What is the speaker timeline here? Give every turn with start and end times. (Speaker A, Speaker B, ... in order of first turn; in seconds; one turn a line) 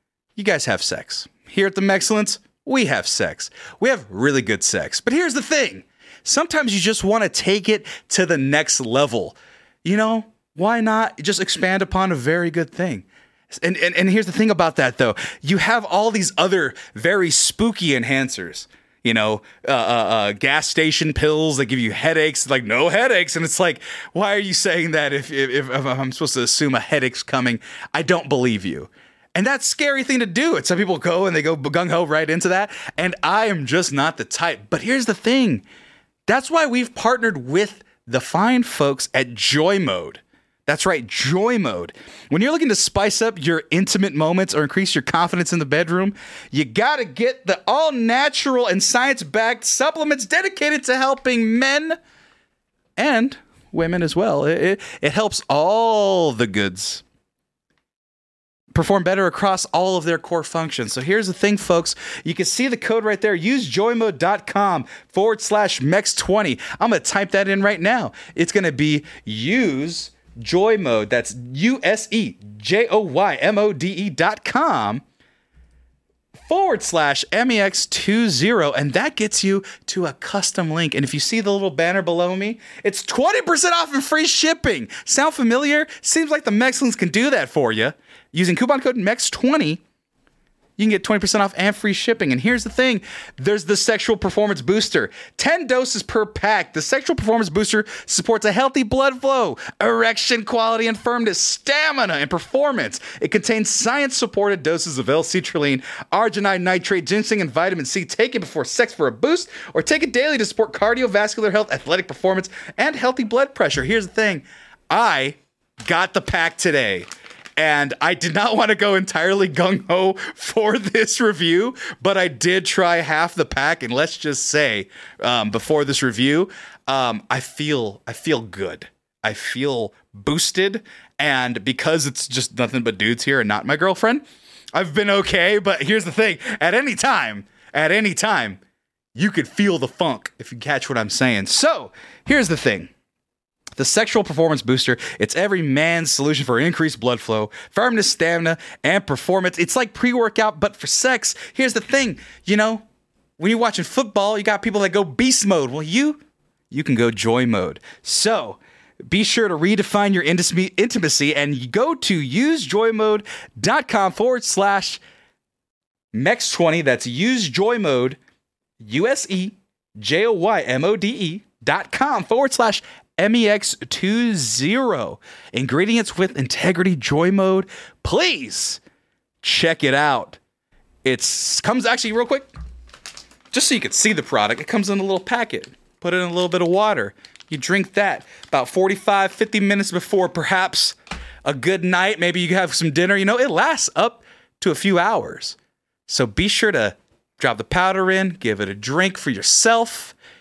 Speaker A: 0.3-35.6
Speaker A: 36.3-52.0
Speaker A: 53.0-57.0
Speaker A: 58.7-75.0
Speaker A: 76.5-89.8
Speaker A: 90.8-138.6
Speaker A: 139.1-142.9
Speaker A: 143.8-152.8
Speaker A: 153.4-156.2
Speaker A: 156.7-165.0
Speaker A: 166.1-168.2
Speaker A: 168.8-178.8
Speaker A: 179.4-180.4
Speaker A: 181.0-182.5
Speaker A: 183.5-195.6
Speaker A: 196.1-200.1